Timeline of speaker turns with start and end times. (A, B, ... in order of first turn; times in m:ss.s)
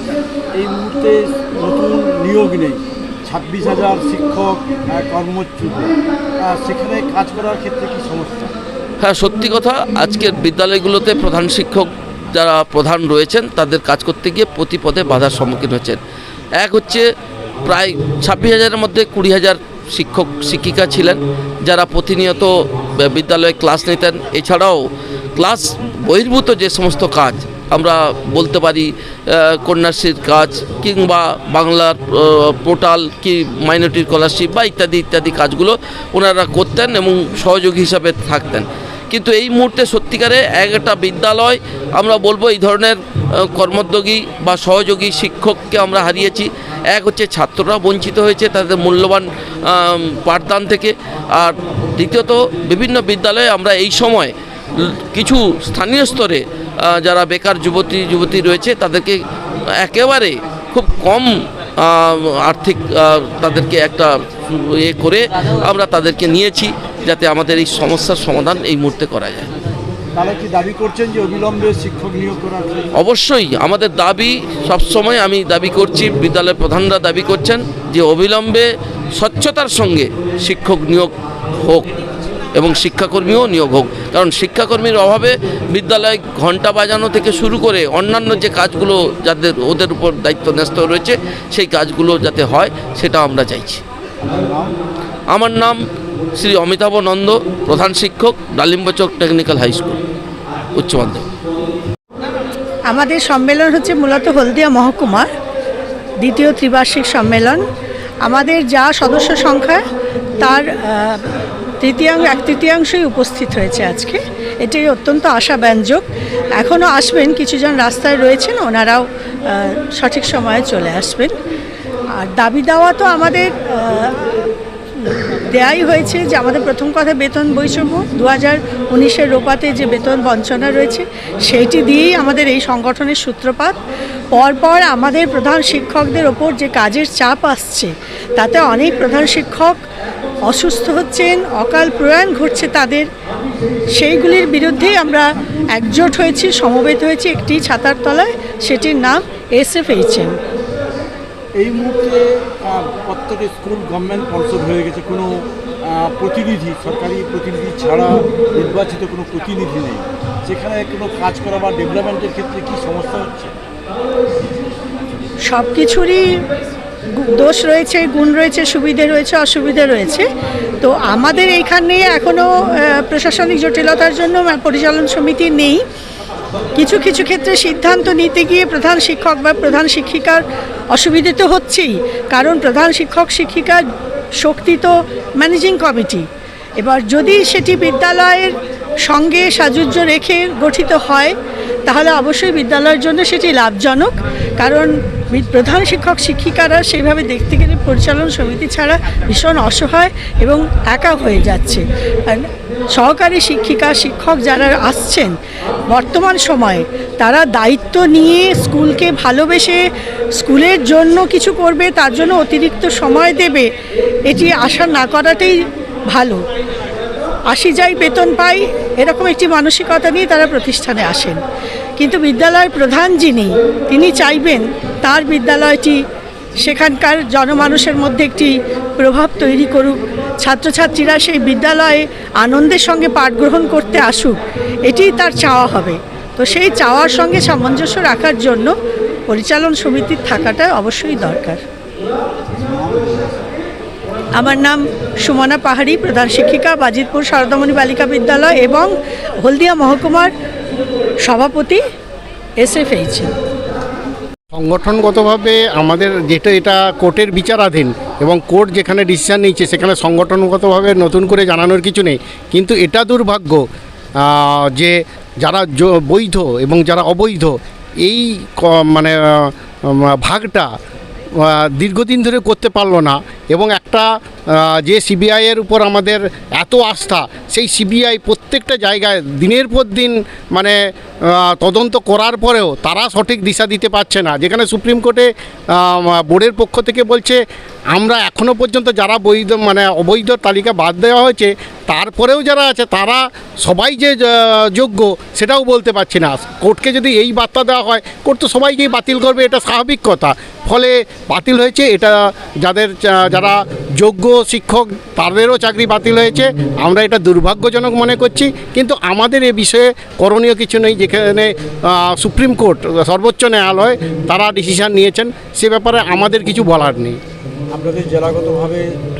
0:00.6-0:08.5 A
0:09.0-0:16.0 B
0:16.6-0:17.1 B
0:17.6-0:59.2 B
0:59.7-1:09.5 B
1:10.1-1:12.9 A
1:13.0-1:21.9 B
1:22.5-1:33.8 B
1:34.2-1:34.7 A
1:35.3-1:35.8 B
1:36.4-1:40.0 B
1:40.7-1:41.2 B
1:42.9-1:45.3 C
1:46.2-1:47.6 C
1:48.2-1:49.8 C
1:50.4-1:51.3 C
1:51.8-1:56.0 C
1:56.6-2:01.3 C
2:02.2-2:04.3 C
2:05.0-2:13.7 C
2:14.3-2:19.8 C
2:20.4-2:23.1 C
2:23.9-2:30.4 C
2:31.6-2:43.5 A
2:45.5-2:46.4 C
2:47.1-2:50.2 C
2:50.8-2:55.8 C
2:56.8-3:03.8 C
3:04.4-3:06.3 C
3:06.8-3:11.3 C
3:11.9-3:25.4 C
3:25.9-3:29.8 C
3:30.4-3:33.7 C
3:34.2-3:36.4 C
3:37.5-3:41.4 C
3:42.0-3:46.0 C
3:46.6-3:58.7 C
3:59.3-4:01.6 C
4:02.5-4:03.4 A
4:04.4-4:08.9 C
4:09.4-4:10.3 C
4:11.2-4:11.8 C
4:12.6-4:13.3 C
4:14.5-4:23.6 D
4:24.2-4:30.7 D
4:31.4-4:47.4 D
4:47.9-5:17.2 D
5:17.7-5:18.9 A